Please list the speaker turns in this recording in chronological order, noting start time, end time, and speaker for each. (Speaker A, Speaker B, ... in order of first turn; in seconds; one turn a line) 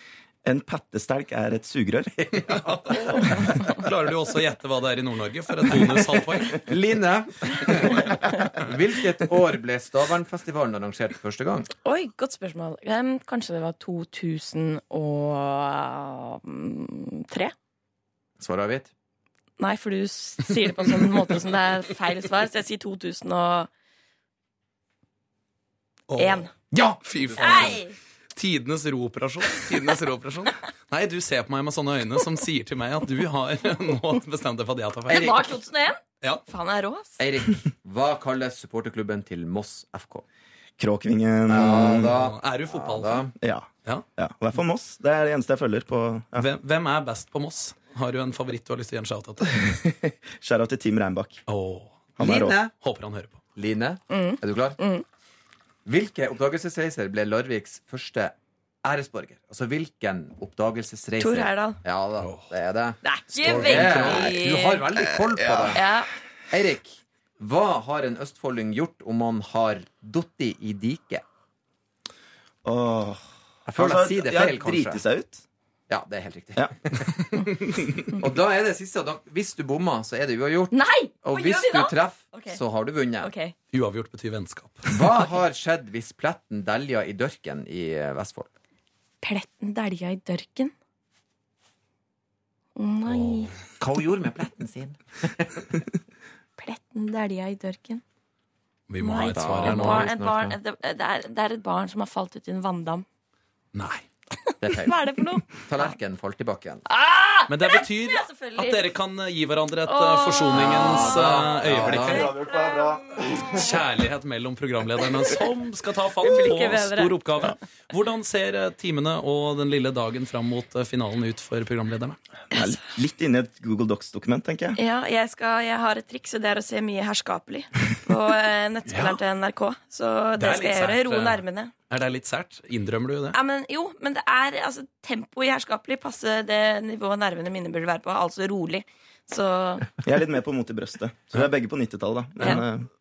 Speaker A: 0.5-2.2
Speaker B: 2.2-3.0
Speaker C: 2.7-6.6
Speaker A: 3.2-3.6
Speaker B: 6.5-11.7
Speaker D: 11.8-17.5
Speaker B: 18.4-18.9
Speaker D: 19.6-23.7
Speaker C: 26.1-26.5
Speaker D: 26.2-26.5
Speaker B: 26.7-27.8
Speaker C: 27.0-27.8
Speaker D: 27.4-27.9
Speaker C: 28.3-35.4
Speaker D: 35.1-37.2
Speaker B: 35.1-35.6
Speaker B: 37.2-40.2
Speaker A: 40.8-42.2
Speaker B: 41.5-43.3
Speaker C: 41.8-43.3
Speaker A: 43.4-46.5
Speaker C: 46.4-49.6
Speaker A: 49.5-51.4
Speaker C: 51.5-52.1
Speaker A: 52.2-52.6
Speaker B: 52.2-52.7
Speaker C: 52.7-53.4
Speaker B: 53.6-54.8
Speaker D: 54.1-55.0
Speaker B: 55.9-65.8
Speaker D: 61.2-61.8
Speaker C: 62.2-62.5
Speaker D: 63.0-64.9
Speaker C: 63.4-64.4
Speaker A: 65.2-65.7
Speaker D: 65.7-66.1
Speaker B: 66.5-71.2
Speaker A: 72.6-75.4
Speaker B: 73.7-75.0
Speaker B: 75.9-77.1
Speaker B: 78.2-83.3
Speaker D: 80.7-82.6
Speaker D: 83.2-83.5
Speaker C: 83.7-85.0
Speaker B: 84.9-88.5
Speaker D: 89.2-90.7
Speaker D: 92.8-93.5
Speaker C: 93.1-93.5
Speaker B: 93.8-95.7
Speaker D: 96.6-98.0
Speaker C: 98.9-100.1
Speaker D: 99.0-103.0
Speaker B: 99.3-100.6
Speaker C: 103.7-104.1
Speaker D: 104.5-105.9
Speaker B: 104.6-105.0
Speaker B: 105.6-106.8
Speaker D: 106.9-108.9
Speaker C: 107.5-112.3
Speaker D: 109.9-111.1
Speaker B: 110.5-112.3
Speaker A: 111.7-113.6
Speaker D: 112.3-112.9
Speaker C: 113.5-122.2
Speaker D: 116.2-117.5
Speaker A: 122.5-124.8
Speaker D: 124.8-131.7
Speaker C: 128.9-129.2
Speaker C: 130.4-133.4
Speaker D: 133.3-139.9
Speaker A: 140.0-142.9